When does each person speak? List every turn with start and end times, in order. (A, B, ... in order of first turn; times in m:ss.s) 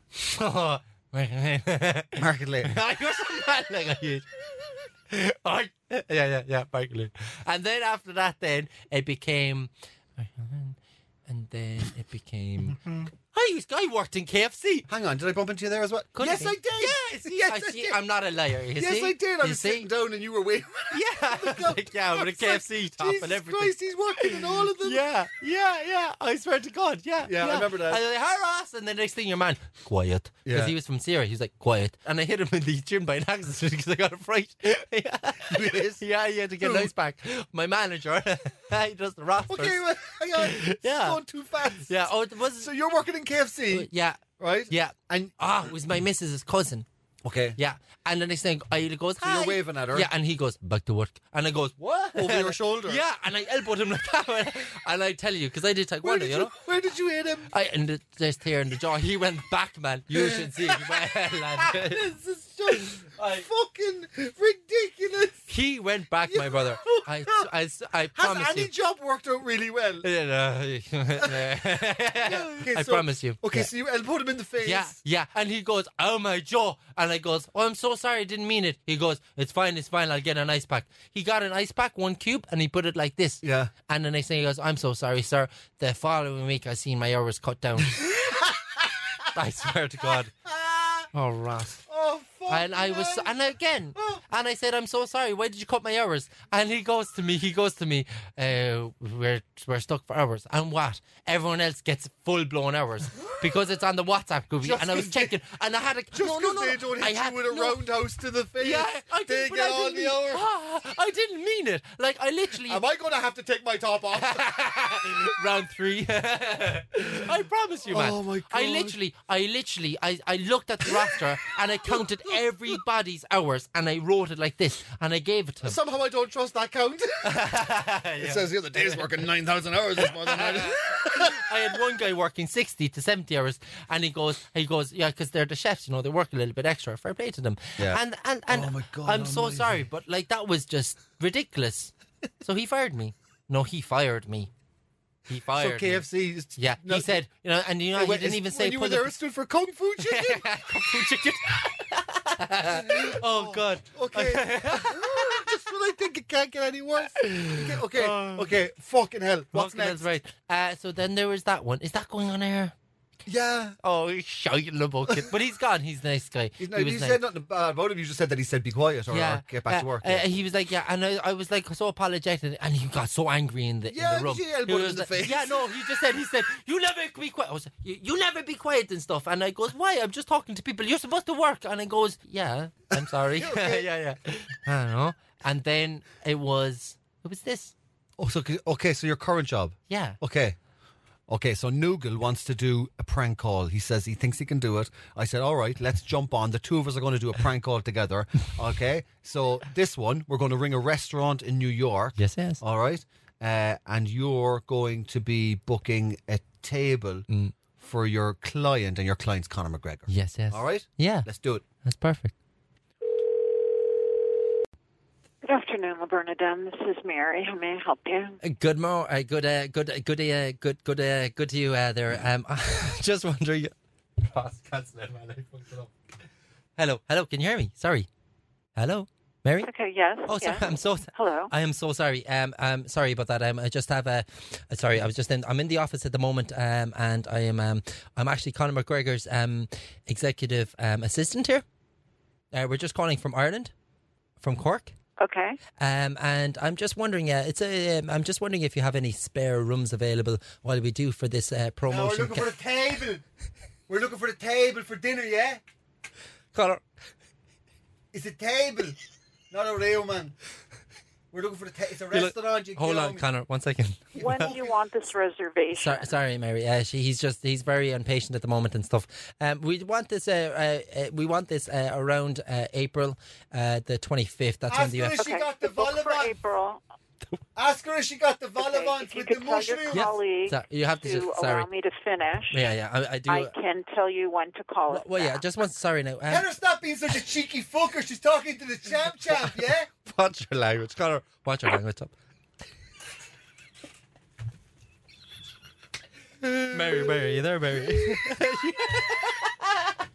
0:00.2-0:14.9 A
0:02.2-0:02.8 B
0:14.9-0:18.0 B
0:16.1-0:19.9 A
0:18.8-0:25.0 B
0:20.9-0:39.8 A
0:27.2-0:28.0 B
0:30.4-0:30.7 B
0:35.5-0:36.0 B
0:36.6-0:36.9 B
0:39.5-0:41.9 B
0:40.4-0:42.7 A
0:42.6-0:45.3 B
0:43.7-0:46.8 A
0:47.2-0:47.6 B
0:47.6-0:56.5 A
0:49.2-0:50.1 B
0:51.8-0:53.0 B
0:56.0-0:57.5 B
0:57.5-1:02.0 A
1:00.1-1:05.5 B
1:02.7-1:03.5 A
1:05.5-1:08.7 A
1:06.3-1:07.5 B
1:08.1-1:10.1 B
1:10.0-1:13.7 A
1:12.1-1:15.0 B
1:14.6-1:28.1 A
1:23.4-1:23.7 B
1:28.0-1:28.6 B
1:29.3-1:30.3 A
1:30.4-1:31.1 B
1:31.1-1:31.8 A
1:31.8-1:33.3 B
1:32.5-1:47.9 A
1:44.6-1:45.3 B
1:46.1-1:50.4 B
1:48.6-1:52.8 A
1:52.6-1:54.4 B
1:54.1-2:05.8 A
1:57.9-1:59.0 B
2:01.9-2:02.4 B
2:05.6-2:07.5 B
2:07.2-2:09.2 A
2:08.2-2:11.4 B
2:10.0-2:24.5 A
2:17.8-2:19.8 B
2:25.3-2:26.0 A
2:25.5-2:27.2 B
2:26.6-2:29.1 A
2:27.9-2:30.5 B
2:30.0-2:35.6 A
2:32.7-2:40.0 B
2:37.2-2:38.5 A
2:39.5-2:42.7 A
2:43.3-2:43.8 B
2:43.8-2:47.2 A
2:46.6-2:50.2 B
2:49.1-3:07.7 A
2:53.9-2:55.6 B
3:02.9-3:03.9 B
3:08.2-3:10.6 B
3:09.9-3:10.2 A
3:11.3-3:27.2 B
3:22.2-3:22.6 A
3:27.3-3:27.5 A
3:27.8-3:31.6 B
3:30.1-3:31.3 A
3:31.8-3:32.3 A
3:35.4-3:38.4 C
3:38.4-3:45.9 A
3:46.8-3:48.1 A
3:48.8-3:49.7 A
3:49.6-3:51.5 C
3:50.2-4:01.6 A
4:02.5-4:03.7 A
4:04.4-4:04.9 A
4:05.2-4:05.6 C
4:05.8-4:12.5 A
4:11.9-4:13.2 B
4:13.9-4:15.6 B
4:16.5-4:16.8 A
4:18.1-4:19.0 B
4:19.5-4:20.3 B
4:21.3-4:23.2 B
4:22.1-4:24.6 A
4:24.2-4:26.1 C
4:25.7-4:35.2 A
4:34.7-4:36.3 B
4:35.2-4:36.8 C
4:37.6-4:40.1 B
4:38.6-4:42.6 C
4:39.9-4:41.7 A
4:42.5-4:43.5 A
4:43.3-4:45.4 C
4:44.9-4:46.5 A
4:46.2-4:49.9 B
4:49.3-4:52.1 A
4:56.4-4:59.9 A
4:56.8-4:57.2 B